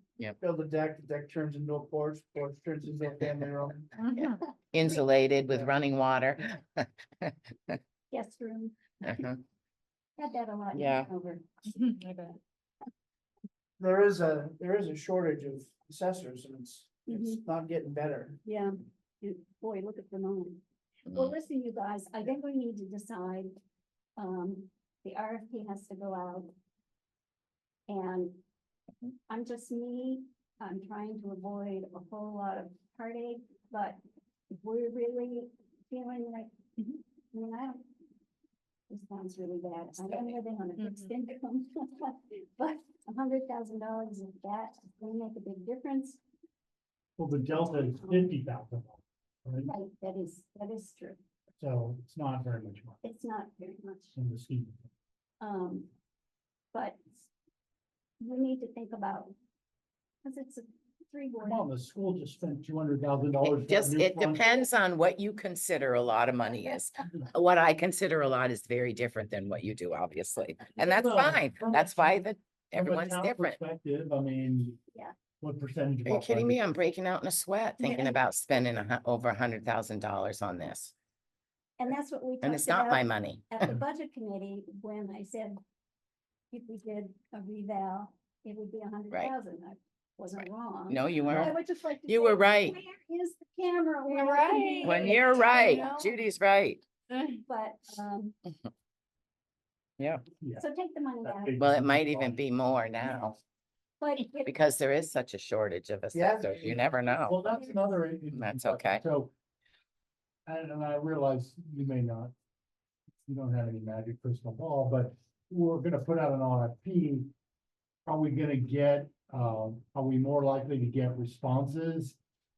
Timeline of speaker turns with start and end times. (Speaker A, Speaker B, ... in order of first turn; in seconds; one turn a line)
Speaker A: 0.4-3.9
Speaker B: 4.0-4.4
Speaker C: 4.7-6.2
Speaker A: 5.5-5.7
Speaker D: 8.1-9.3
Speaker C: 9.1-9.4
Speaker D: 10.2-11.9
Speaker C: 10.8-11.1
Speaker B: 11.7-12.4
Speaker A: 13.8-18.4
Speaker D: 17.1-17.4
Speaker D: 18.4-23.6
Speaker D: 24.2-26.5
Speaker D: 27.9-28.4
Speaker D: 29.3-36.5
Speaker D: 37.3-37.8
Speaker D: 38.9-46.2
Speaker B: 40.8-41.1
Speaker E: 47.2-49.7
Speaker D: 47.6-48.4
Speaker D: 49.7-51.2
Speaker E: 51.6-53.0
Speaker D: 53.0-54.1
Speaker E: 54.1-54.9
Speaker D: 55.4-55.9
Speaker D: 56.7-57.3
Speaker D: 58.2-59.4
Speaker D: 60.2-61.6
Speaker E: 61.4-64.5
Speaker C: 63.4-73.6
Speaker E: 70.8-74.8
Speaker E: 75.4-76.8
Speaker C: 76.1-80.9
Speaker D: 77.8-78.2
Speaker D: 81.8-85.6
Speaker C: 82.4-83.7
Speaker D: 86.5-96.0
Speaker C: 90.9-91.5
Speaker C: 92.1-92.8
Speaker B: 94.1-96.1
Speaker C: 94.8-96.8
Speaker D: 97.2-98.3
Speaker C: 100.0-100.3
Speaker E: 100.4-100.7
Speaker D: 100.6-101.6
Speaker E: 101.2-102.4
Speaker C: 101.6-103.4
Speaker D: 104.0-104.5
Speaker C: 104.4-107.5
Speaker A: 106.1-106.6
Speaker E: 106.6-109.3
Speaker C: 108.3-109.0
Speaker E: 110.5-112.3
Speaker E: 113.2-117.3
Speaker E: 118.1-122.2